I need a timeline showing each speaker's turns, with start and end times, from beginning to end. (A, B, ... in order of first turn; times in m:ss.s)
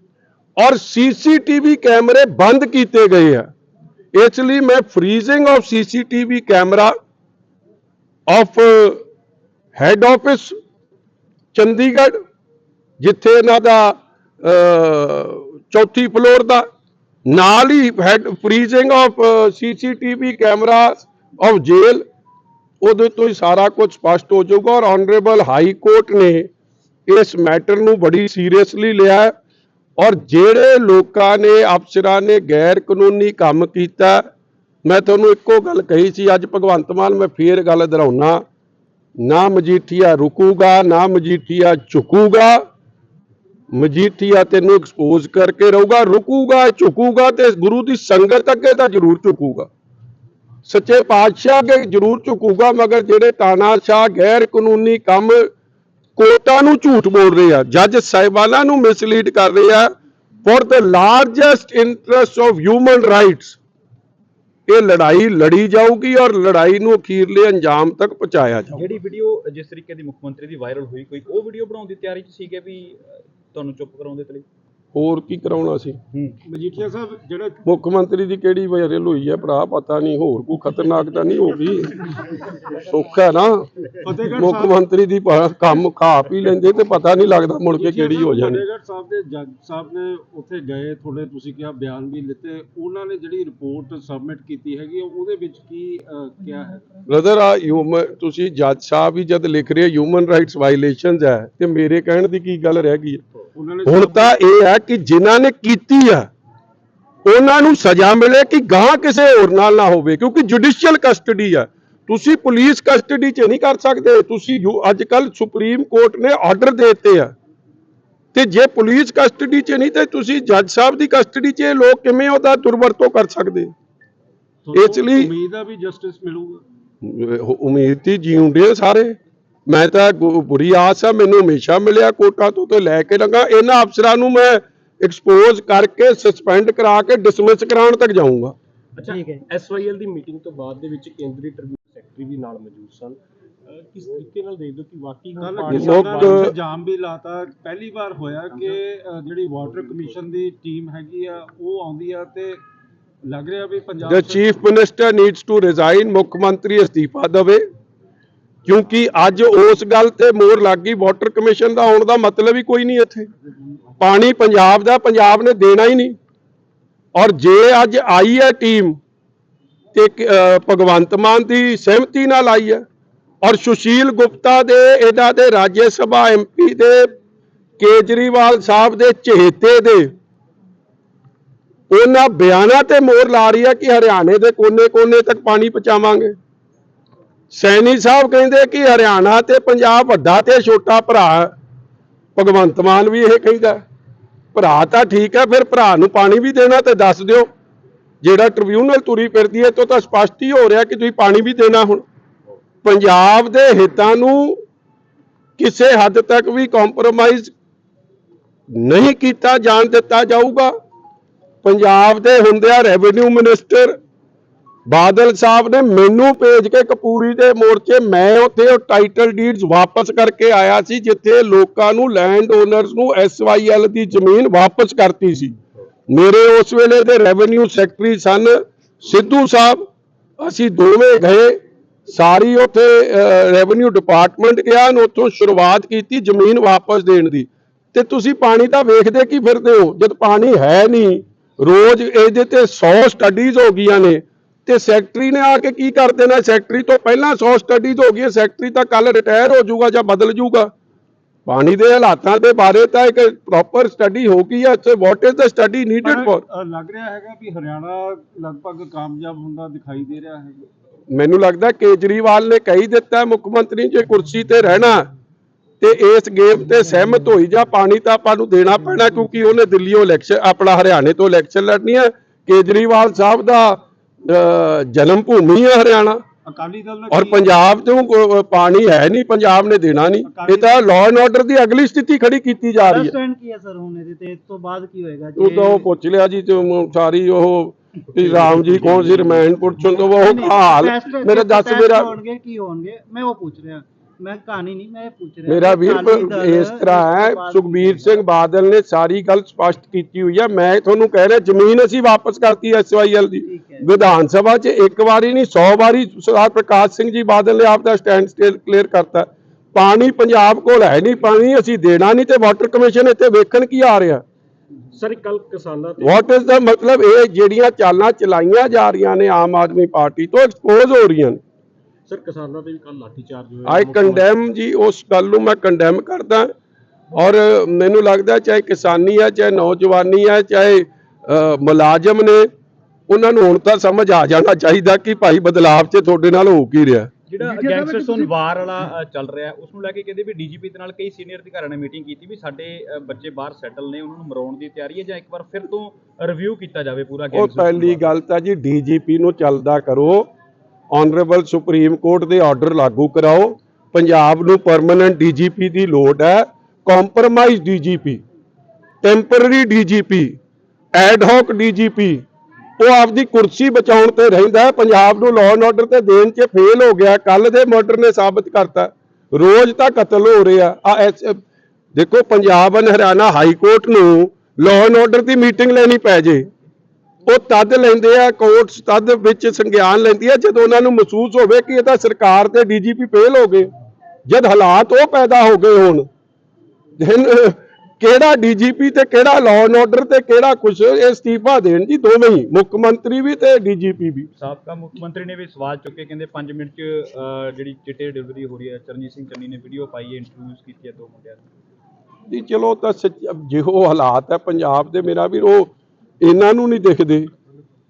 0:00.6-0:03.5 A
0:04.1-0:06.9 A
0:08.3-0:09.0 A
0:09.8-0:10.5 A
0:11.5-0:12.2 A
0:13.0-0:16.6 A
0:17.2-0:22.0 A
0:22.8-0:26.5 A
0:27.1-0:29.3 A
0:30.0-0:34.2 A
0:34.8-0:38.4 A
0:39.2-0:42.6 A
0:43.7-0:49.7 A
0:50.6-0:55.5 A
0:56.2-0:59.9 A
1:00.4-1:03.6 A
1:04.7-1:08.8 A
1:08.7-1:14.4 B
1:14.9-1:16.0 A
1:16.4-1:17.6 C
1:17.6-1:22.1 A
1:22.7-1:23.7 A
1:24.0-1:24.8 C
1:24.3-1:28.6 A
1:27.7-1:36.9 C
1:37.1-1:43.2 A
1:43.5-1:44.3 C
1:43.8-1:46.3 A
1:47.2-1:57.3 A
1:58.3-2:03.7 A
2:04.6-2:06.6 C
2:04.7-2:05.3 A
2:07.0-2:18.5 A
2:19.0-2:26.3 D
2:25.4-2:32.6 C
2:25.7-2:26.5 A
2:33.2-2:34.4 C
2:34.1-2:37.6 A
2:38.6-2:43.3 A
2:44.0-2:46.2 A
2:47.1-2:49.0 A
2:49.9-2:52.8 A
2:53.4-2:57.1 A
2:57.8-3:00.1 A
3:01.9-3:06.4 A
3:07.5-3:11.5 A
3:12.4-3:13.8 A
3:14.5-3:17.5 A
3:18.2-3:22.0 A
3:22.8-3:24.6 A
3:25.6-3:27.5 A
3:28.7-3:30.7 A
3:31.6-3:34.0 A
3:34.9-3:45.5 A
3:46.1-3:49.8 A
3:50.4-4:10.7 A
4:11.5-4:16.4 A
4:16.0-4:20.7 C
4:21.1-4:25.1 A
4:25.8-4:36.2 A
4:36.4-4:37.5 C
4:37.1-4:43.1 A
4:40.2-4:40.8 C
4:42.8-4:45.9 E
4:45.4-4:52.1 A
4:50.0-4:58.2 E
4:55.5-5:14.2 A
5:03.4-5:03.9 E
5:14.9-5:16.2 D
5:16.0-5:21.4 A
5:22.1-5:24.3 D
5:23.6-5:26.5 A
5:27.1-5:32.5 A
5:33.1-5:37.1 A
5:37.3-5:48.1 B
5:37.4-5:38.3 E
5:47.3-5:50.3 A
5:50.9-5:58.2 A
5:59.0-6:00.4 A
6:00.9-6:02.2 A
6:02.8-6:11.4 A
6:11.9-6:16.5 A
6:17.2-6:23.7 A
6:24.2-6:26.1 A
6:27.0-6:34.3 A
6:34.4-6:41.4 B
6:42.3-6:47.3 A